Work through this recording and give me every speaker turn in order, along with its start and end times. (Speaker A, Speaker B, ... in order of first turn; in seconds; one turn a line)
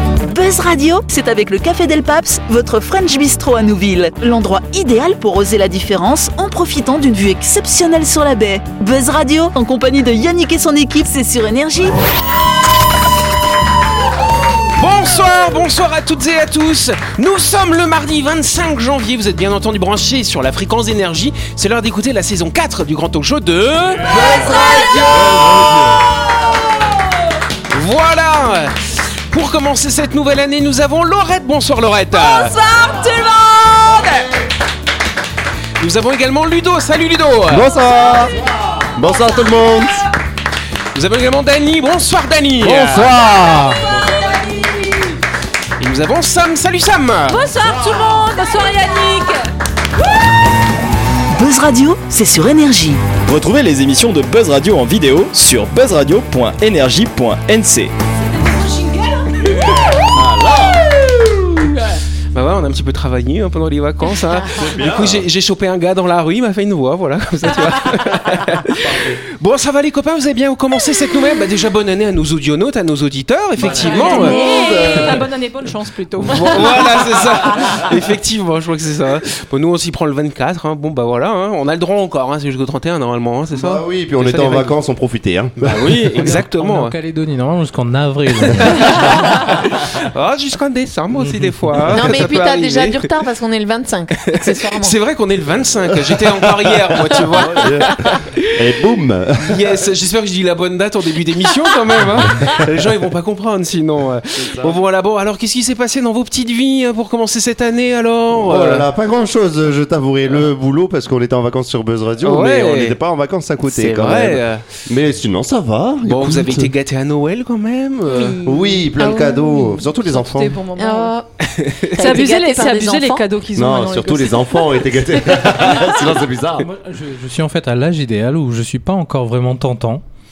Speaker A: 0.2-12.0
Speaker B: 14.7-24.1
Speaker C: 24.0-26.0
Speaker D: 24.4-25.3
Speaker B: 27.7-32.5
Speaker D: 32.2-34.2
Speaker B: 35.8-37.7
Speaker C: 37.5-40.1
Speaker B: 41.0-43.0
Speaker C: 42.6-43.2
Speaker E: 42.6-43.8
Speaker C: 43.9-44.3
Speaker D: 44.0-44.8
Speaker B: 45.8-47.4
Speaker D: 47.3-49.5
Speaker A: 51.3-53.2
Speaker F: 53.3-57.9
Speaker D: 58.4-59.8
Speaker C: 60.0-61.0
Speaker B: 62.3-75.2
Speaker C: 64.5-65.3
Speaker C: 68.1-69.2
Speaker C: 73.6-75.2
Speaker D: 73.6-77.1
Speaker G: 73.8-75.0
Speaker B: 76.3-84.8
Speaker C: 83.5-86.3
Speaker B: 85.6-87.0
Speaker E: 86.2-89.6
Speaker B: 89.1-93.1
Speaker E: 91.2-91.9
Speaker G: 91.9-95.0
Speaker B: 94.3-98.7
Speaker G: 97.4-97.7
Speaker C: 97.4-99.8
Speaker B: 99.4-108.9
Speaker C: 102.4-102.7
Speaker C: 104.4-104.8
Speaker C: 108.3-116.7
Speaker B: 112.2-113.0
Speaker B: 113.6-114.7
Speaker B: 116.1-118.4
Speaker D: 118.1-118.7
Speaker G: 118.1-119.8
Speaker C: 118.4-120.5
Speaker D: 120.0-121.1
Speaker G: 120.8-121.3
Speaker B: 121.4-122.2
Speaker G: 121.8-123.2
Speaker D: 122.0-124.8
Speaker C: 123.6-126.7
Speaker E: 126.6-130.0